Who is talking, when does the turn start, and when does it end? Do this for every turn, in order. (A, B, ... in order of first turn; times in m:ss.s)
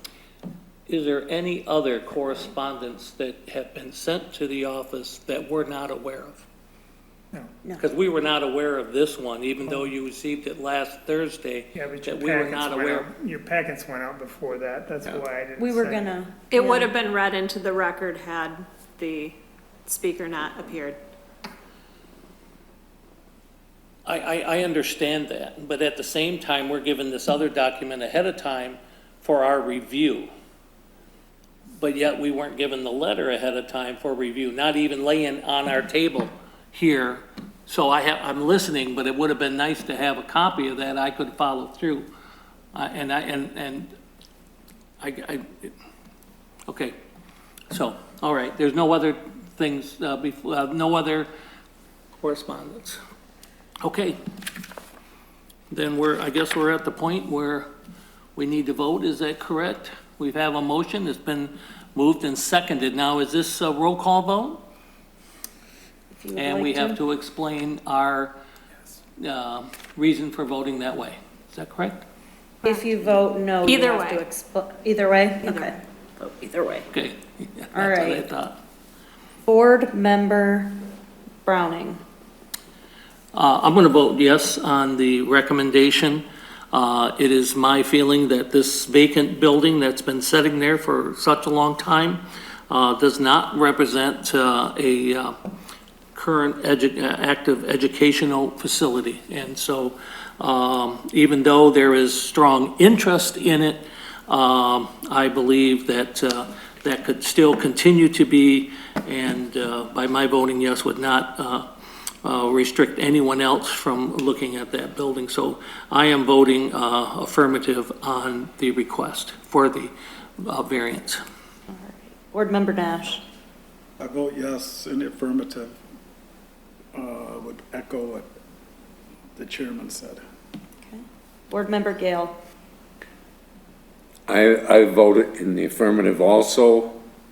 0:00.9-0:06.4 A
0:07.8-0:13.1 A
0:11.8-0:16.1 B
0:15.6-0:16.9 C
0:16.5-0:21.0 D
0:24.1-0:30.3 A
0:31.8-0:42.1 A
0:42.7-0:43.9 A
0:45.0-0:45.7 A
0:46.7-0:47.0 A
0:47.7-0:51.3 A
0:52.2-0:53.0 A
0:53.8-0:54.2 A
0:55.7-0:57.7 A
0:58.4-1:04.6 A
1:06.1-1:07.0 C
1:06.4-1:08.3 A
1:09.2-1:12.0 A
1:12.6-1:12.9 D
1:12.6-1:16.9 C
1:13.6-1:14.2 D
1:15.4-1:15.7 D
1:16.9-1:18.6 A
1:17.7-1:18.3 C
1:19.5-1:20.8 C
1:21.4-1:22.0 C
1:23.3-1:35.4 A
1:36.1-1:51.7 A
1:52.2-2:01.2 A
2:01.7-2:03.2 C
2:04.0-2:05.8 E
2:06.9-2:08.3 E
2:09.4-2:10.2 E
2:10.8-2:12.4 C
2:14.3-2:17.0 F